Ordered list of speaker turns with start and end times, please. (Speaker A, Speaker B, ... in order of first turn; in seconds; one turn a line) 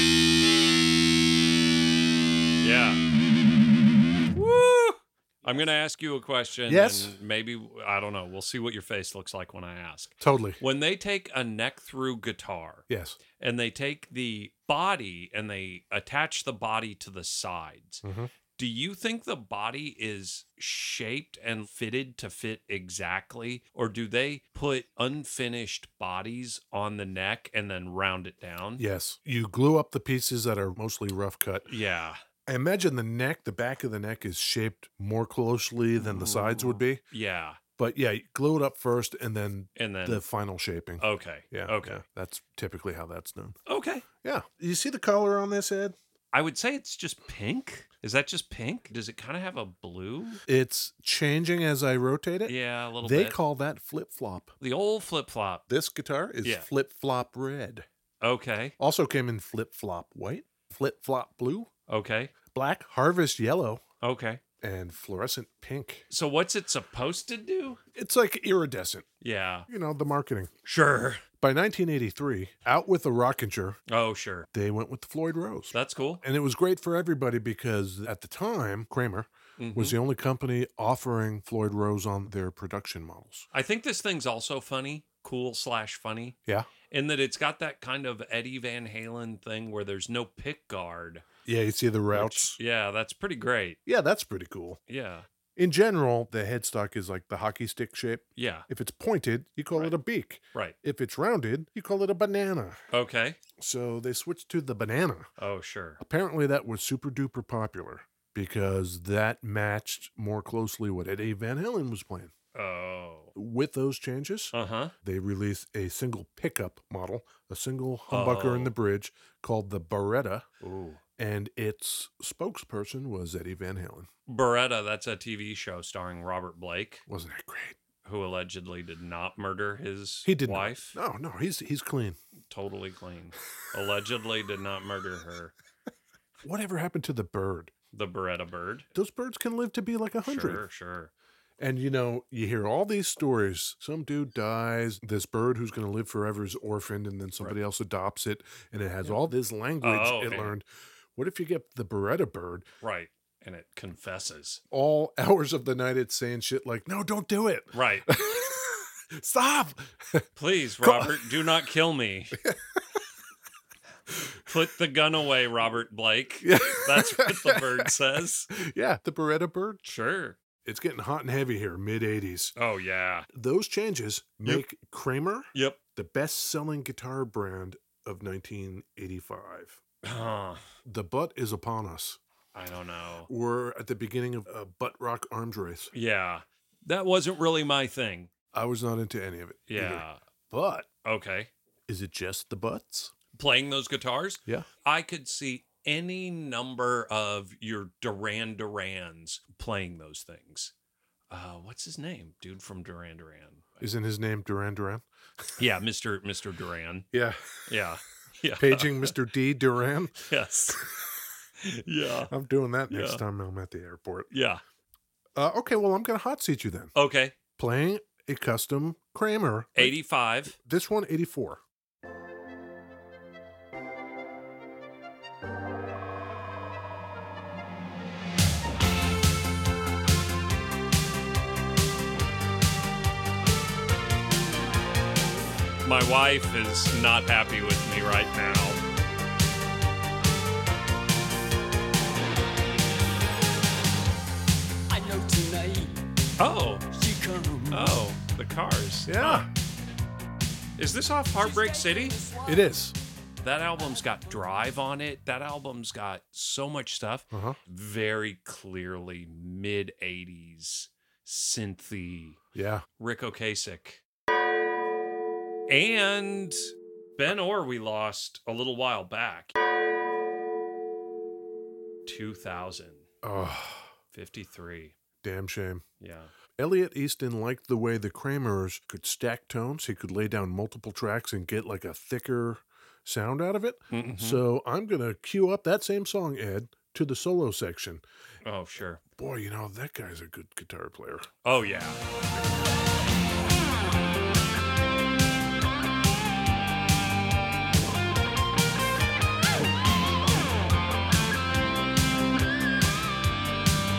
Speaker A: 2.6-3.0
Speaker A: 4.3-12.8
Speaker B: 6.7-7.1
Speaker B: 10.2-10.6
Speaker B: 12.9-13.2
Speaker A: 13.4-18.0
Speaker B: 18.0-18.3
Speaker A: 18.6-28.8
Speaker B: 28.8-31.7
Speaker A: 31.7-32.2
Speaker B: 32.5-37.0
Speaker A: 36.0-37.6
Speaker B: 37.8-43.5
Speaker A: 39.8-40.2
Speaker A: 41.0-42.0
Speaker A: 43.6-44.0
Speaker B: 44.2-45.9
Speaker A: 46.3-50.4
Speaker B: 50.5-54.5
Speaker A: 52.5-53.4
Speaker A: 54.6-55.6
Speaker B: 55.7-57.9
Speaker A: 58.2-58.7
Speaker B: 58.8-61.7
Speaker A: 61.9-62.3
Speaker B: 62.5-63.8
Speaker A: 64.0-64.4
Speaker B: 64.6-66.0
Speaker A: 66.1-67.8
Speaker B: 67.9-69.1
Speaker A: 69.2-69.7
Speaker B: 69.7-70.5
Speaker A: 70.6-71.2
Speaker B: 71.4-73.8
Speaker A: 73.9-74.5
Speaker B: 74.5-83.5
Speaker A: 75.7-76.2
Speaker A: 79.6-80.0
Speaker A: 83.5-86.4
Speaker A: 86.9-91.2
Speaker B: 91.4-92.6
Speaker A: 92.1-93.8
Speaker B: 93.8-94.8
Speaker A: 94.9-95.3
Speaker B: 95.5-102.8
Speaker A: 98.4-98.7
Speaker A: 102.9-103.4
Speaker B: 103.6-105.3
Speaker A: 105.4-106.0
Speaker B: 106.0-112.3
Speaker A: 112.5-113.3
Speaker B: 113.3-120.5
Speaker A: 114.5-114.9
Speaker A: 118.1-118.7
Speaker A: 120.6-121.0
Speaker B: 121.2-124.1
Speaker A: 124.3-127.0
Speaker B: 127.1-127.8
Speaker A: 128.0-130.9
Speaker B: 130.2-132.2
Speaker A: 132.5-135.5
Speaker B: 136.4-137.7
Speaker A: 137.9-138.9
Speaker B: 138.9-140.6
Speaker A: 140.2-141.1
Speaker B: 141.6-152.7
Speaker A: 149.8-150.5
Speaker A: 152.8-154.6
Speaker B: 154.7-160.3
Speaker A: 157.7-158.1
Speaker A: 160.3-162.3
Speaker B: 160.8-161.3
Speaker A: 164.4-168.5
Speaker B: 166.4-167.9
Speaker B: 168.5-169.8
Speaker A: 169.8-170.4
Speaker B: 170.6-172.5
Speaker A: 172.6-173.3
Speaker B: 173.3-179.8
Speaker A: 175.5-175.8
Speaker A: 180.0-180.6
Speaker B: 180.8-182.2
Speaker A: 182.5-183.3
Speaker B: 183.3-185.9
Speaker A: 185.9-188.3
Speaker B: 188.5-190.9
Speaker A: 189.7-190.2
Speaker A: 191.0-191.5
Speaker B: 191.9-193.1
Speaker A: 193.3-200.7
Speaker A: 201.3-203.8
Speaker B: 203.8-205.0
Speaker A: 205.6-207.1
Speaker B: 207.1-207.7
Speaker A: 207.7-209.1
Speaker B: 208.6-210.3
Speaker A: 210.2-210.8
Speaker A: 211.6-212.3
Speaker B: 212.3-214.3
Speaker A: 212.9-213.2
Speaker A: 214.3-214.6
Speaker B: 215.3-216.9
Speaker A: 216.9-217.3
Speaker B: 217.6-219.9
Speaker A: 219.8-220.5
Speaker B: 220.5-221.6
Speaker A: 235.8-238.8
Speaker C: 244.9-246.0
Speaker A: 246.4-246.9
Speaker C: 246.9-248.0
Speaker A: 247.7-249.4
Speaker B: 249.1-249.5
Speaker A: 250.8-252.2
Speaker C: 251.4-252.7
Speaker B: 252.4-252.9
Speaker A: 253.4-262.4
Speaker B: 257.3-257.6
Speaker B: 262.5-262.9
Speaker A: 263.0-264.0
Speaker A: 265.7-269.5
Speaker A: 272.0-273.1
Speaker B: 273.2-273.9
Speaker A: 274.1-274.9
Speaker B: 275.2-275.8
Speaker A: 276.0-276.3
Speaker B: 276.6-288.0
Speaker A: 283.9-284.4
Speaker A: 288.4-289.0
Speaker B: 289.2-291.3
Speaker A: 291.4-292.0